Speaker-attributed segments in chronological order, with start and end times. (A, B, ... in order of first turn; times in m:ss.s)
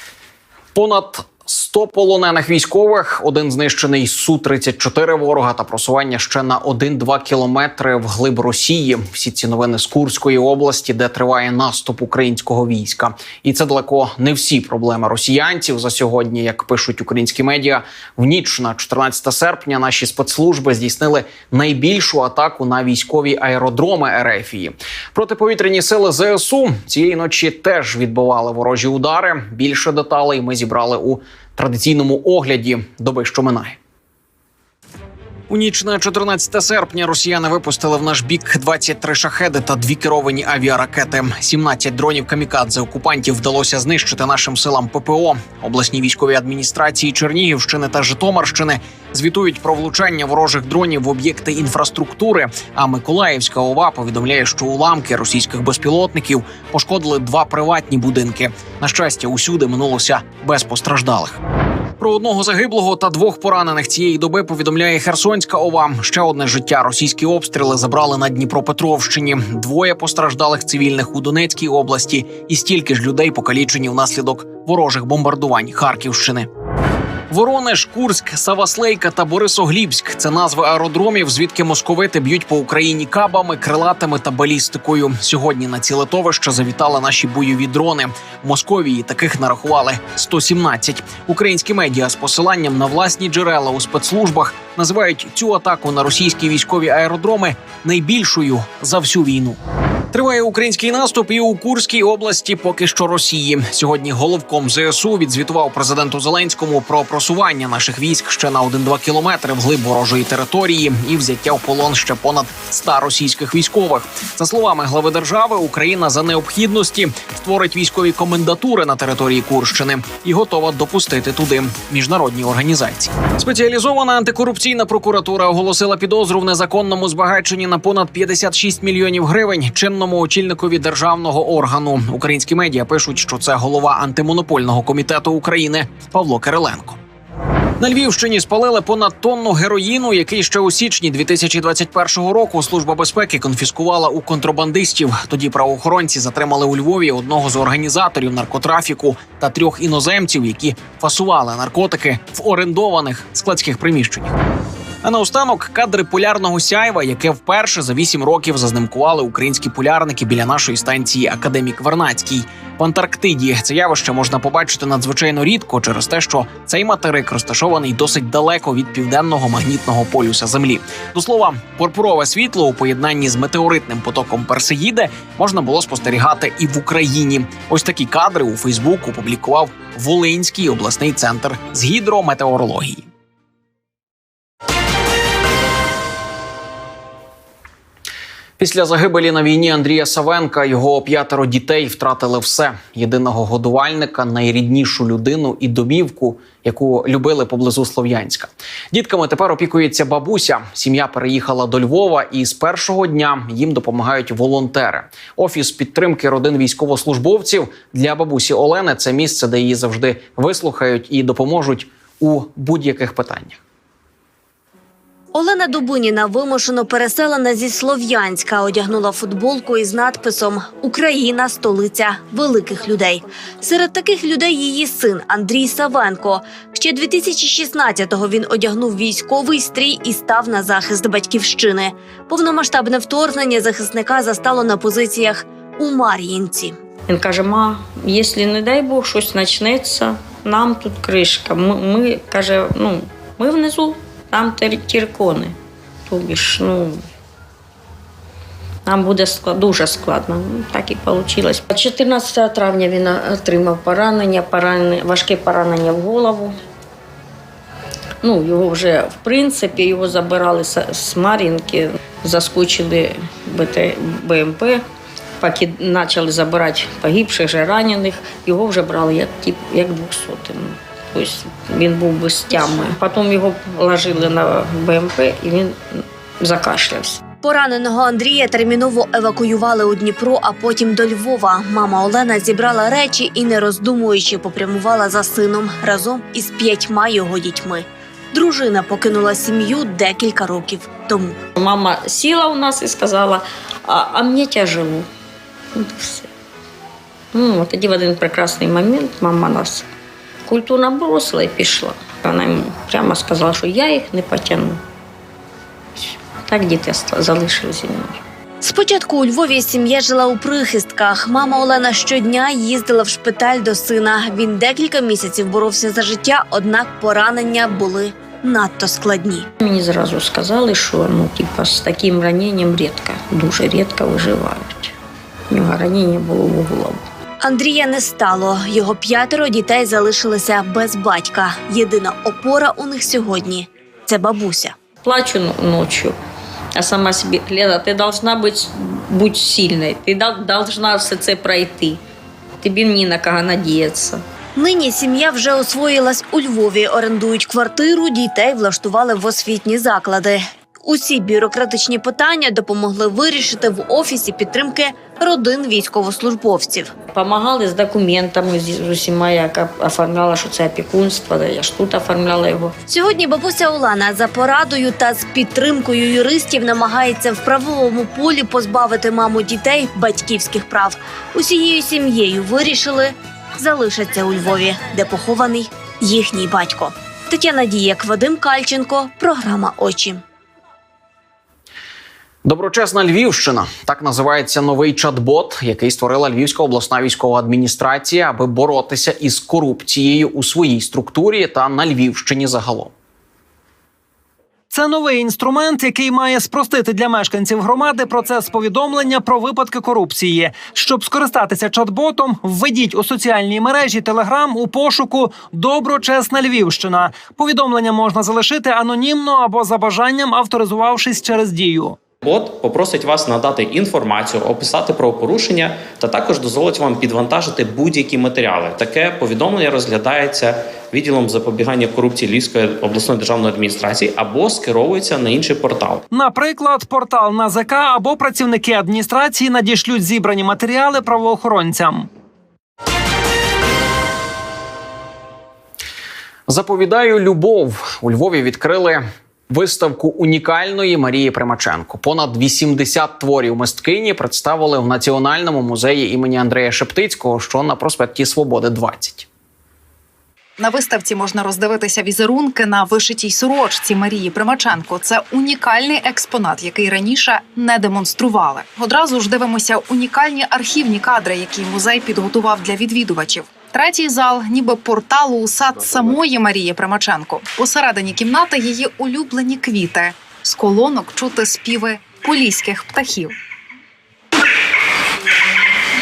0:00.7-0:33.8 A
0:35.5-1:01.4 A
1:02.0-1:16.5 A
1:17.3-1:39.6 A
1:40.1-2:17.0 A
2:17.8-2:34.3 A
2:35.0-3:03.0 A
3:08.6-3:33.6 A
3:35.3-3:56.8 B
3:57.1-4:05.5 C
4:06.0-4:07.0 C
4:08.8-4:16.5 C
4:18.2-4:24.8 C
4:25.4-4:37.2 C
4:37.4-4:51.4 B
4:51.6-4:55.0 C
4:55.7-4:56.3 C
4:57.3-4:59.8 C
5:00.4-5:04.8 C
5:06.4-5:08.2 C
5:08.6-5:19.5 B
5:19.6-5:24.9 C
5:25.5-5:27.0 C
5:27.4-5:34.7 B
5:35.0-5:36.1 C
5:36.7-5:42.0 C
5:42.6-5:44.2 C
5:44.6-5:56.9 B
5:57.1-6:02.7 C
6:02.9-6:20.2 B
6:22.4-6:32.9 A
6:34.7-6:52.0 D
6:52.2-7:06.0 E
7:06.1-7:12.1 D
7:16.5-7:29.3 A
7:30.6-7:53.3 F